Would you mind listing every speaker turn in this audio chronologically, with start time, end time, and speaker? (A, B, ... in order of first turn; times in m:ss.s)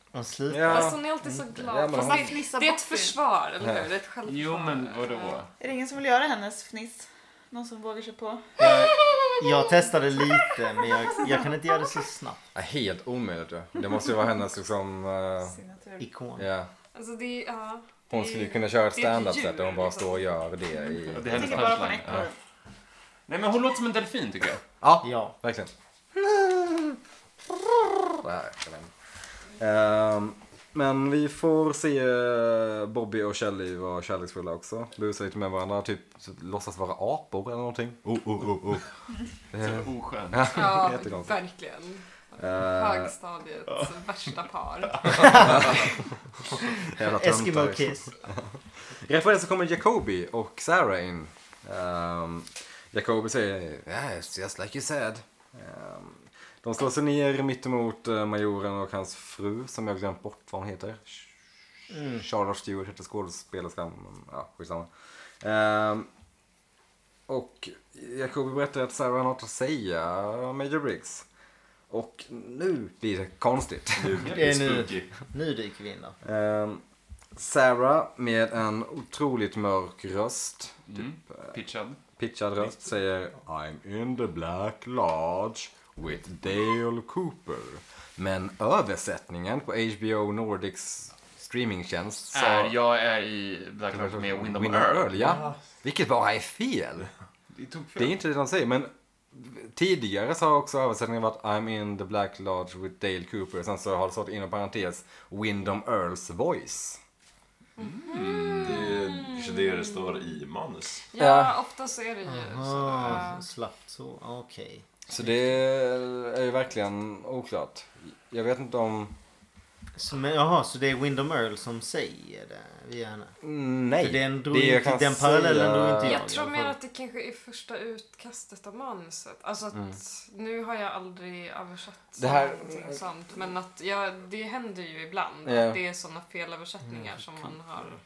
0:00.1-0:01.0 A
0:00.5-0:02.4 B
0:00.6-0:05.4 C
0:01.9-0:03.2 D
0:03.6-0:03.9 B
0:04.2-0:05.5 E
0:05.6-0:08.6 D
0:08.6-0:12.4 A
0:08.8-0:09.6 C
0:12.5-0:15.6 B
0:15.4-0:16.0 D
0:16.0-0:16.5 A
0:16.4-0:16.7 B
0:16.9-0:20.2 C
0:18.1-0:22.2 B
0:21.1-0:22.3 E
0:21.2-0:22.3 D
0:23.3-0:24.6 E
0:24.8-0:28.9 B
0:25.0-0:25.3 A
0:29.6-0:38.9 B
0:39.5-0:41.4 B
0:39.6-0:40.7 E
0:40.5-0:45.7 C
0:42.4-0:43.1 B
0:45.0-0:45.3 E
0:45.2-0:45.6 A
0:45.3-0:46.0 B
0:46.8-0:48.1 B
0:47.0-0:48.1 A
0:48.9-1:01.3 B
1:01.9-1:02.2 A
1:02.1-1:06.1 B
1:07.3-1:11.2 B
1:11.9-1:14.3 B
1:14.0-1:15.1 F
1:14.2-1:16.2 A
1:16.2-1:16.8 B
1:17.3-1:21.5 B
1:20.9-1:22.0 E
1:22.2-1:32.8 B
1:32.3-1:35.5 E
1:33.9-1:37.1 B
1:37.5-1:38.1 E
1:38.0-1:47.0 B
1:47.8-1:48.9 E
1:47.8-1:49.9 C
1:48.6-1:51.0 F
1:51.1-1:53.4 C
1:51.2-1:51.6 B
1:52.2-1:55.3 A
1:55.1-1:59.1 B
2:00.0-2:03.4 A
2:03.4-2:06.2 B
2:04.0-2:06.8 A
2:06.0-2:18.0 C
2:12.2-2:13.0 B
2:15.4-2:15.8 B